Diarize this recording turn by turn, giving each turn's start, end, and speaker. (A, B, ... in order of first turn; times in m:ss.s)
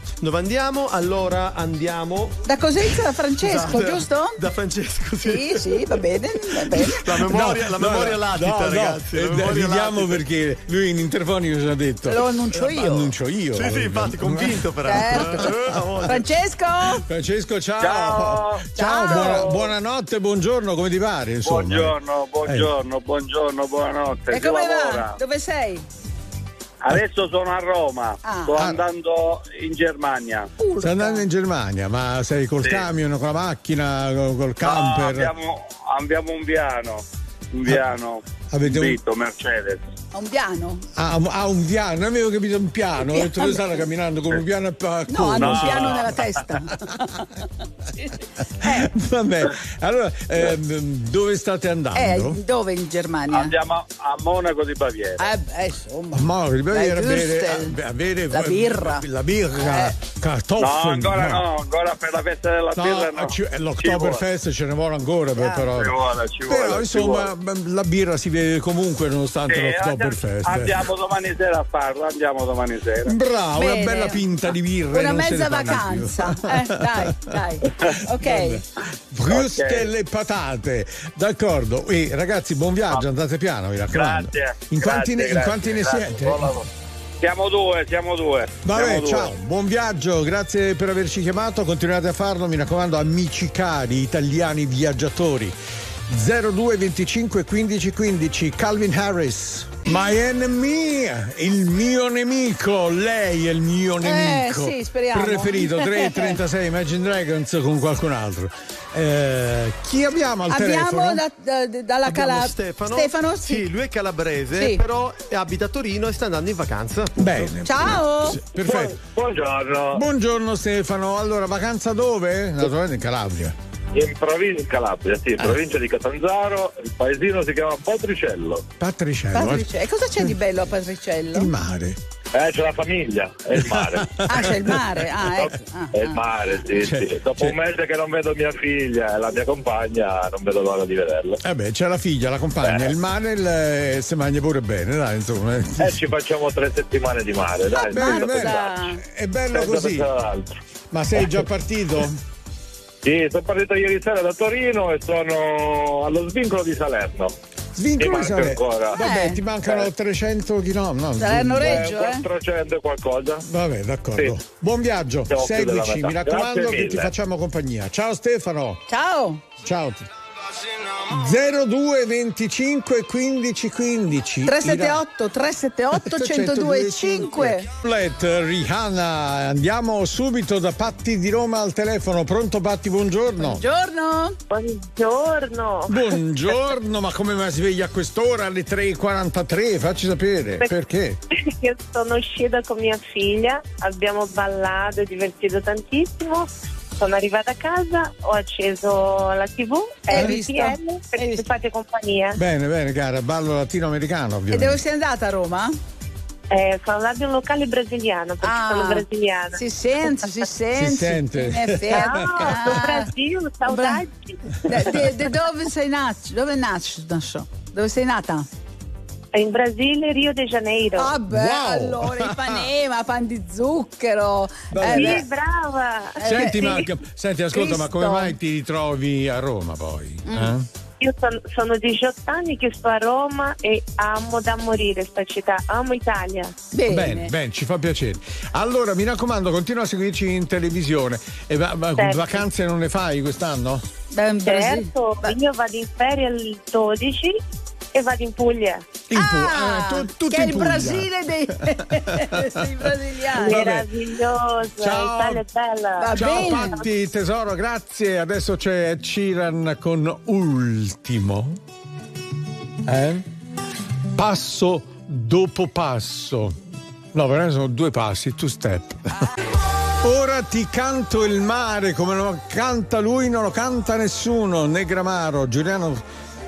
0:00.2-0:02.4 A
0:02.5-0:04.4 B
0:03.4-0:06.0 A
0:05.2-0:07.1 B
0:06.7-0:10.2 A
0:07.2-0:15.9 C
0:12.1-0:13.1 B
0:13.5-0:16.2 A
0:14.9-0:17.0 B
0:17.0-0:22.7 C
0:17.8-0:18.6 D
0:18.8-0:19.6 B
0:19.2-0:19.5 D
0:21.4-0:25.2 D
0:24.3-0:25.8 B
0:26.8-0:30.5 D
0:28.2-0:28.7 B
0:28.5-0:28.9 C
0:30.6-0:31.3 B
0:30.8-0:35.4 C
0:34.6-0:39.8 D
0:38.5-0:39.0 C
0:40.1-0:40.9 B
0:41.0-0:46.2 C
0:43.1-0:43.6 B
0:45.1-0:47.4 B
0:45.4-0:46.0 D
0:48.0-0:48.9 B
0:48.6-0:52.4 C
0:52.0-0:53.6 B
0:53.3-0:55.2 D
0:55.2-0:57.8 B
0:56.1-1:01.5 C
0:58.3-0:59.0 B
0:59.6-1:00.0 B
1:00.6-1:03.3 D
1:02.7-1:10.9 C
1:03.8-1:04.2 D
1:05.4-1:05.7 B
1:05.7-1:07.3 D
1:09.5-1:13.1 D
1:13.0-1:26.6 C
1:13.6-1:14.2 B
1:14.9-1:18.6 B
1:19.3-1:19.9 D
1:23.9-1:26.6 D
1:27.2-1:29.3 D
1:28.6-1:51.2 C
1:44.0-1:46.4 B
1:50.5-1:53.7 B
1:52.0-1:57.2 A
1:57.2-1:59.0 C
1:57.6-1:58.4 B
1:58.6-2:00.0 D
1:59.9-2:03.6 C
2:04.0-2:08.6 D
2:08.8-2:09.7 C
2:09.4-2:11.5 B
2:11.3-2:12.0 C
2:12.3-2:14.3 D
2:13.6-2:14.9 C
2:14.2-2:16.2 B
2:15.4-2:21.4 D
2:16.7-2:17.6 C
2:21.4-2:26.0 C
2:22.6-2:22.9 D
2:25.8-2:28.7 D
2:27.7-2:29.0 B
2:27.9-2:30.1 C
2:29.5-2:30.5 D
2:30.9-2:32.2 C
2:33.0-2:37.3 D
2:37.8-2:41.9 C
2:38.0-2:39.0 D
2:39.0-2:39.4 B
2:39.6-2:39.9 D
2:41.2-2:42.3 B
2:41.6-2:43.4 D
2:43.4-2:48.8 C
2:45.3-2:47.1 D
2:48.9-2:49.4 B
2:49.6-2:50.1 C
2:51.0-2:55.0 C
2:54.4-2:57.7 B
2:55.9-3:03.6 C
3:03.4-3:04.4 B
3:04.5-3:06.2 E
3:05.9-3:11.2 C
3:11.3-3:22.4 E
3:20.1-3:21.5 B
3:22.4-3:24.8 C
3:24.5-3:25.7 B
3:26.5-3:29.6 E
3:28.4-3:33.1 B
3:30.7-3:32.7 C
3:31.9-3:35.1 E
3:33.7-3:34.0 B
3:34.6-3:38.5 B
3:39.3-3:41.2 E
3:41.0-3:45.2 B
3:41.3-3:42.7 C
3:44.7-3:45.3 C
3:44.8-3:46.8 E
3:46.2-3:46.9 B
3:46.2-3:50.7 C
3:47.5-3:48.4 B
3:50.3-3:50.5 B
3:51.0-3:56.6 E
3:56.7-3:57.3 B
3:56.9-4:03.8 C
4:02.0-4:02.4 E
4:04.1-4:05.4 B
4:04.4-4:07.4 E
4:07.9-4:08.8 E
4:09.1-4:13.9 C
4:09.2-4:13.8 B
4:13.4-4:16.8 E
4:14.8-4:15.4 C
4:16.0-4:16.8 B
4:16.2-4:21.6 C
4:22.8-4:23.3 C
4:24.1-4:26.6 C
4:27.1-4:29.3 C
4:30.0-4:36.0 C